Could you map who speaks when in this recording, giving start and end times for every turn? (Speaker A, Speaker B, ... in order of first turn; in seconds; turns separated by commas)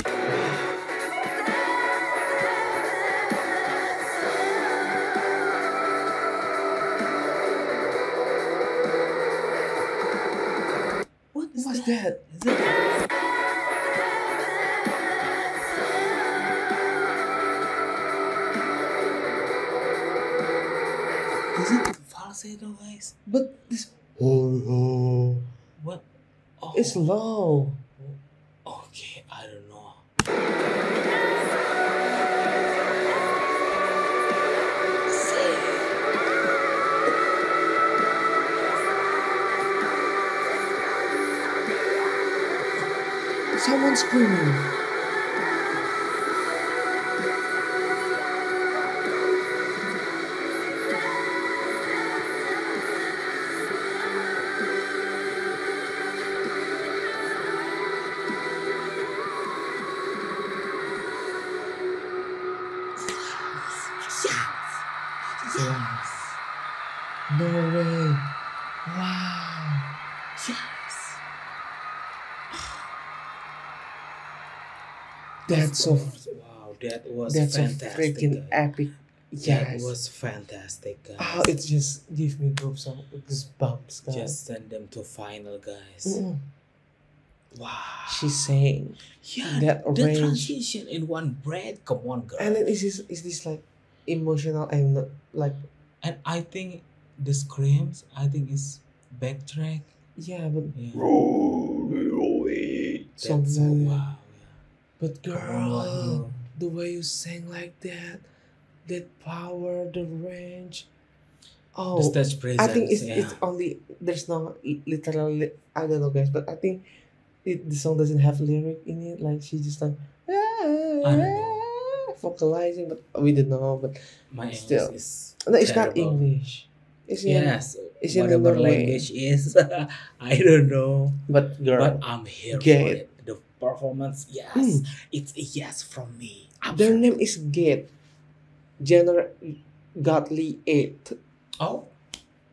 Speaker A: 0.3-0.6, Speaker A: 11.3-13.0, Speaker B: 11.6-12.2, Speaker A: 21.5-23.1, Speaker B: 23.2-25.4, Speaker A: 25.8-26.0, Speaker A: 26.6-27.0, Speaker B: 26.7-27.8, Speaker A: 28.0-30.0, Speaker A: 35.1-35.9, Speaker B: 43.5-44.7, Speaker A: 63.5-66.4, Speaker B: 67.3-68.2, Speaker B: 68.8-69.9, Speaker A: 70.3-71.2, Speaker B: 75.5-76.2, Speaker A: 75.5-78.6, Speaker B: 77.3-79.9, Speaker A: 79.4-81.5, Speaker B: 81.2-84.4, Speaker A: 84.1-86.2, Speaker B: 86.0-86.4, Speaker A: 87.5-88.6, Speaker B: 88.1-90.5, Speaker A: 89.2-92.6, Speaker B: 92.4-95.6, Speaker A: 96.0-99.9, Speaker B: 100.2-104.0, Speaker A: 100.7-101.0, Speaker A: 103.2-104.6, Speaker B: 105.0-108.2, Speaker A: 105.3-106.4, Speaker B: 108.8-110.9, Speaker B: 111.7-116.8, Speaker A: 111.9-113.4, Speaker B: 117.4-129.1, Speaker A: 121.0-121.7, Speaker A: 124.3-126.3, Speaker A: 127.2-137.1, Speaker B: 131.3-133.0, Speaker B: 134.5-134.8, Speaker B: 136.7-137.9, Speaker B: 138.8-141.2, Speaker A: 141.6-141.9